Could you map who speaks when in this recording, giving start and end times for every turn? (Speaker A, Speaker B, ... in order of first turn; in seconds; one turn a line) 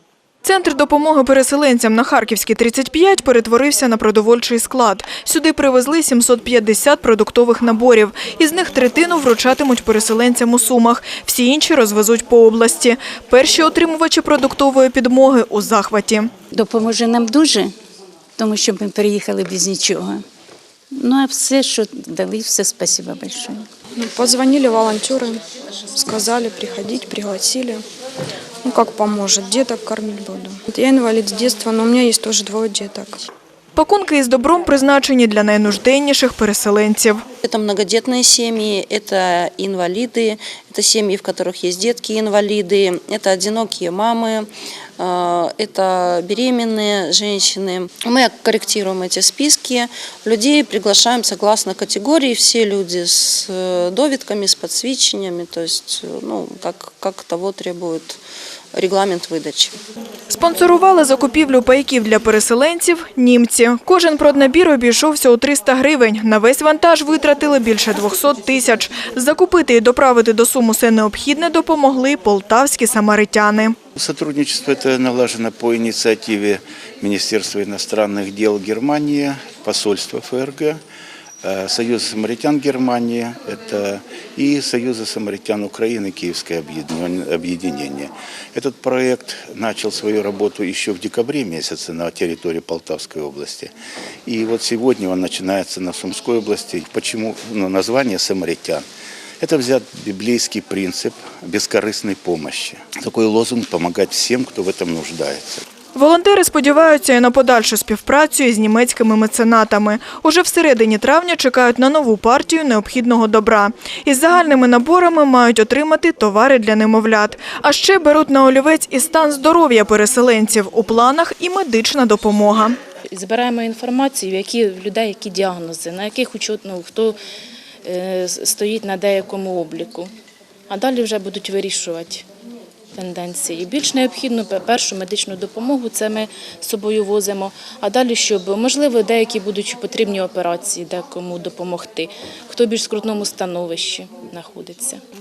Speaker A: 0.4-16.3
Speaker B: 16.5-17.7
Speaker B: 18.4-20.2
Speaker B: 21.0-23.7
Speaker C: 23.9-25.4
Speaker C: 25.9-27.8
Speaker C: 28.6-33.3
Speaker A: 33.8-37.2
Speaker D: 37.4-58.2
Speaker D: 58.7-59.8
Speaker A: 60.3-73.7
Speaker E: 74.0-80.8
Speaker E: 81.4-93.7
Speaker E: 94.2-98.8
Speaker E: 99.4-105.6
Speaker A: 105.9-122.8
Speaker F: 123.1-127.2
Speaker F: 127.8-130.1
Speaker F: 130.7-132.2
Speaker F: 132.9-145.0